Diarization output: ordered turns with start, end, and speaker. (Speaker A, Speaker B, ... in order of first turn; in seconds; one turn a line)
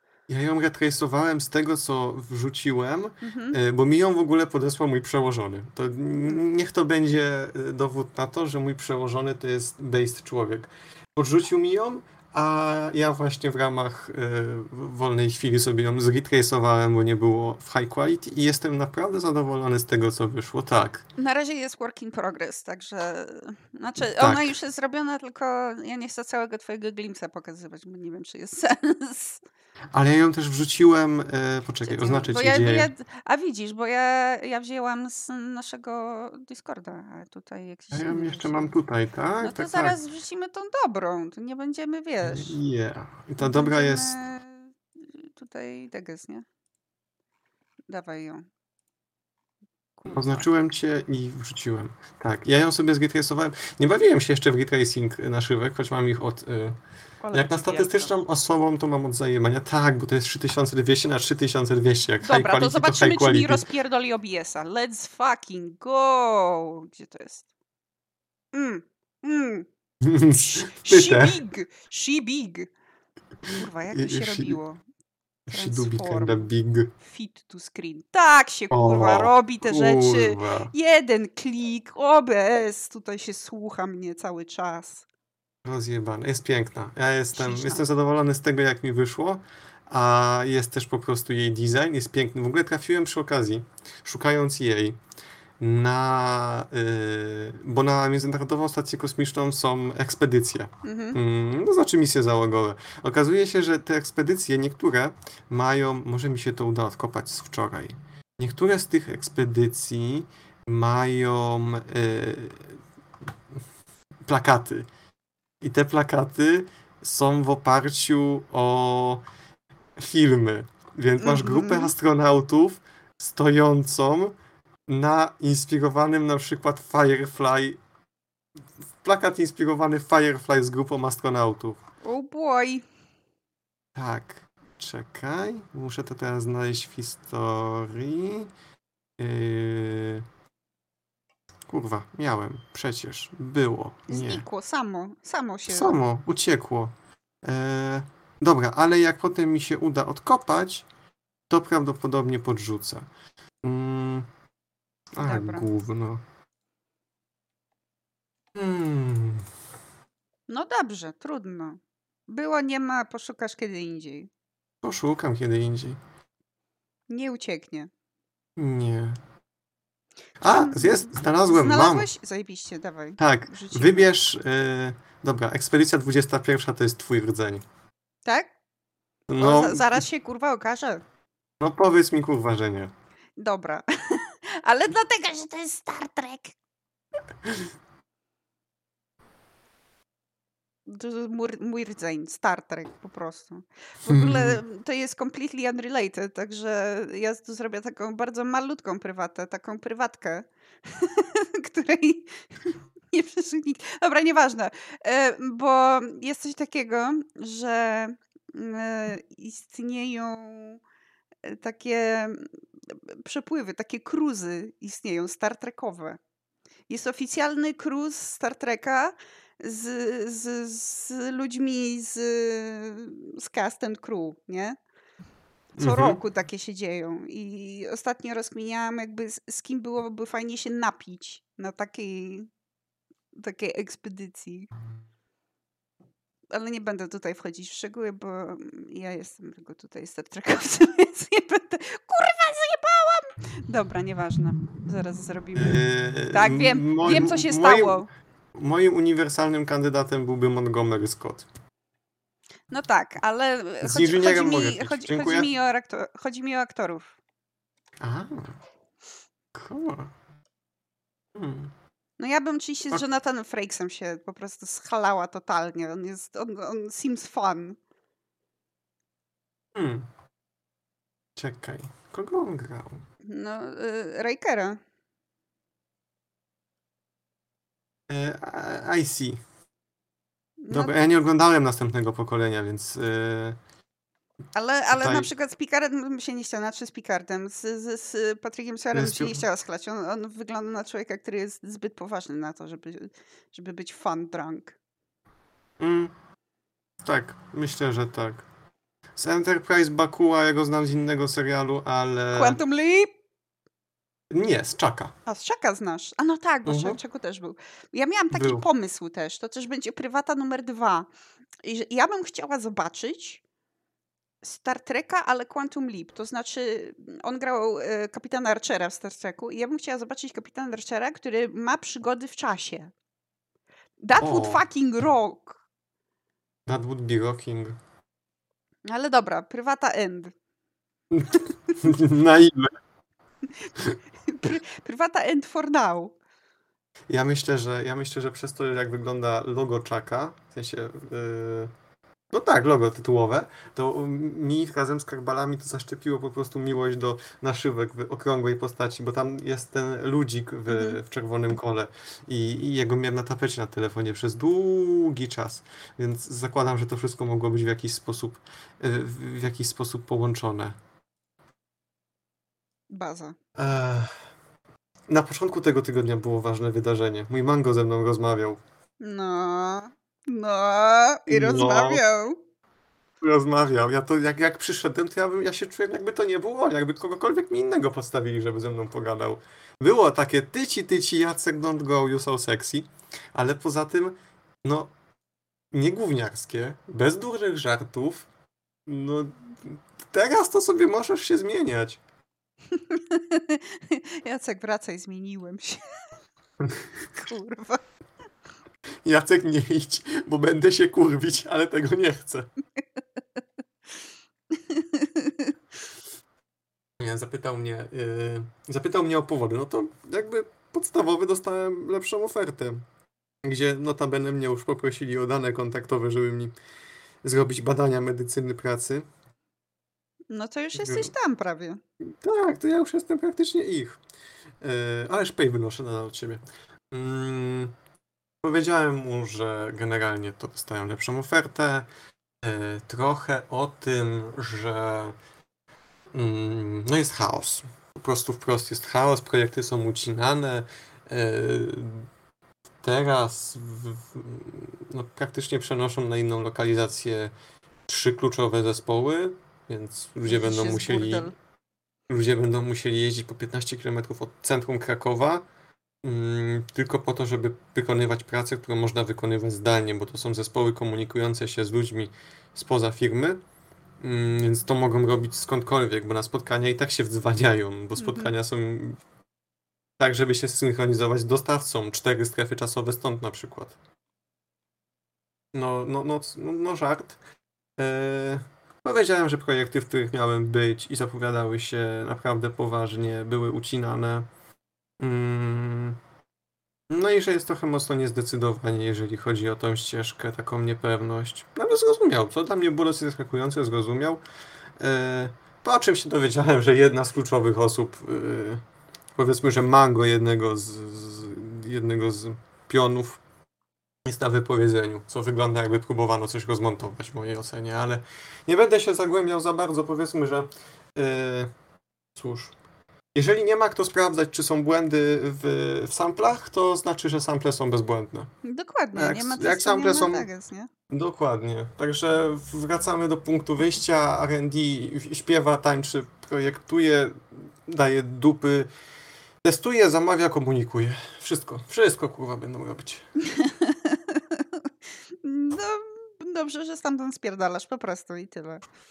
Speaker A: 0.3-21.1
Speaker B: 3.2-3.6
Speaker B: 21.2-29.4
Speaker A: 24.0-24.6
Speaker A: 29.9-32.9
Speaker B: 31.9-38.8
Speaker A: 37.9-40.0
Speaker B: 39.4-42.6
Speaker A: 42.2-44.2
Speaker B: 43.4-46.5
Speaker B: 47.9-48.5
Speaker B: 50.0-50.5
Speaker A: 50.1-56.8
Speaker B: 57.2-58.1
Speaker A: 57.3-63.7
Speaker B: 62.2-67.5
Speaker B: 68.5-69.7
Speaker A: 70.0-71.4
Speaker B: 70.4-72.7
Speaker B: 73.5-74.8
Speaker A: 73.9-74.6
Speaker A: 75.5-76.9
Speaker B: 75.5-76.5
Speaker B: 77.0-85.0
Speaker A: 78.7-80.7
Speaker A: 85.7-95.0
Speaker B: 87.3-87.8
Speaker A: 95.6-112.8
Speaker B: 100.8-101.2
Speaker A: 114.3-114.9
Speaker A: 115.6-119.2
Speaker A: 120.0-124.3
Speaker B: 121.2-121.9
Speaker A: 124.9-127.8
Speaker A: 129.0-131.8
Speaker B: 132.0-132.9
Speaker A: 133.9-138.5
Speaker A: 139.2-140.2
Speaker A: 141.7-144.5
Speaker B: 144.1-146.0
Speaker A: 145.7-146.9
Speaker A: 147.4-150.9
Speaker A: 151.5-153.1
Speaker A: 153.6-154.3
Speaker A: 155.1-156.2
Speaker B: 155.2-155.7
Speaker A: 158.6-159.5
Speaker B: 160.5-164.3
Speaker A: 164.8-166.0
Speaker B: 167.1-167.9
Speaker A: 168.6-169.2
Speaker A: 170.4-172.1
Speaker B: 170.5-174.1
Speaker A: 173.2-177.6
Speaker B: 178.2-178.5
Speaker A: 179.3-180.0
Speaker B: 179.4-181.0
Speaker A: 181.6-182.9
Speaker B: 183.4-186.5
Speaker B: 190.9-210.8
Speaker A: 194.1-194.6
Speaker B: 211.4-216.2
Speaker B: 216.9-224.8
Speaker B: 225.8-232.5
Speaker A: 225.8-226.2
Speaker B: 233.3-234.7
Speaker B: 236.5-248.1
Speaker A: 245.6-248.0
Speaker A: 248.6-251.5
Speaker B: 252.7-257.1
Speaker A: 253.8-255.5
Speaker A: 258.0-258.6
Speaker A: 259.5-260.1
Speaker A: 261.4-261.7
Speaker B: 262.2-267.8
Speaker A: 269.8-270.1
Speaker A: 271.4-273.0
Speaker B: 273.2-274.8
Speaker A: 278.1-279.4
Speaker B: 280.6-280.9
Speaker A: 280.7-283.6
Speaker B: 284.6-294.8
Speaker A: 284.9-285.3
Speaker A: 288.9-289.4
Speaker A: 295.8-296.1
Speaker A: 297.1-298.5
Speaker A: 299.2-302.6
Speaker B: 302.3-303.1
Speaker A: 304.3-305.1
Speaker B: 305.3-311.1
Speaker A: 306.7-307.0
Speaker A: 308.3-308.6
Speaker B: 311.6-313.4
Speaker B: 314.4-322.9
Speaker B: 324.0-325.6
Speaker A: 324.2-324.6
Speaker A: 326.7-327.8
Speaker B: 328.9-330.3
Speaker A: 331.1-332.7
Speaker B: 334.2-336.1
Speaker A: 337.1-341.7
Speaker A: 342.3-360.8
Speaker B: 350.7-351.0
Speaker B: 362.9-363.4
Speaker A: 363.6-364.1
Speaker A: 365.1-368.6
Speaker B: 369.0-372.4
Speaker A: 371.3-372.0
Speaker A: 373.2-384.9
Speaker A: 385.7-388.3
Speaker A: 388.9-392.0
Speaker B: 392.7-396.0
Speaker B: 397.1-397.8
Speaker A: 399.1-402.5
Speaker B: 402.8-403.4
Speaker B: 404.5-405.6
Speaker A: 407.0-412.8
Speaker A: 413.4-416.6
Speaker A: 417.2-419.1
Speaker B: 420.3-421.8
Speaker A: 420.8-421.1
Speaker A: 422.1-424.0
Speaker A: 424.6-427.7
Speaker A: 428.4-431.9
Speaker A: 432.4-435.2
Speaker A: 436.1-442.1
Speaker A: 442.8-447.3
Speaker A: 447.9-451.3
Speaker B: 450.3-451.3
Speaker A: 452.1-455.5
Speaker A: 456.0-463.4
Speaker A: 464.0-469.0
Speaker B: 468.0-468.3
Speaker A: 470.0-473.8
Speaker A: 475.5-477.2
Speaker A: 477.8-484.3
Speaker A: 485.0-486.0
Speaker A: 486.9-494.2
Speaker A: 494.8-498.6
Speaker A: 499.2-503.2
Speaker A: 504.1-511.5
Speaker A: 512.1-512.5
Speaker A: 513.1-518.3
Speaker B: 518.4-520.7
Speaker A: 519.0-520.3
Speaker A: 520.9-528.7
Speaker A: 529.4-533.1
Speaker B: 533.2-538.6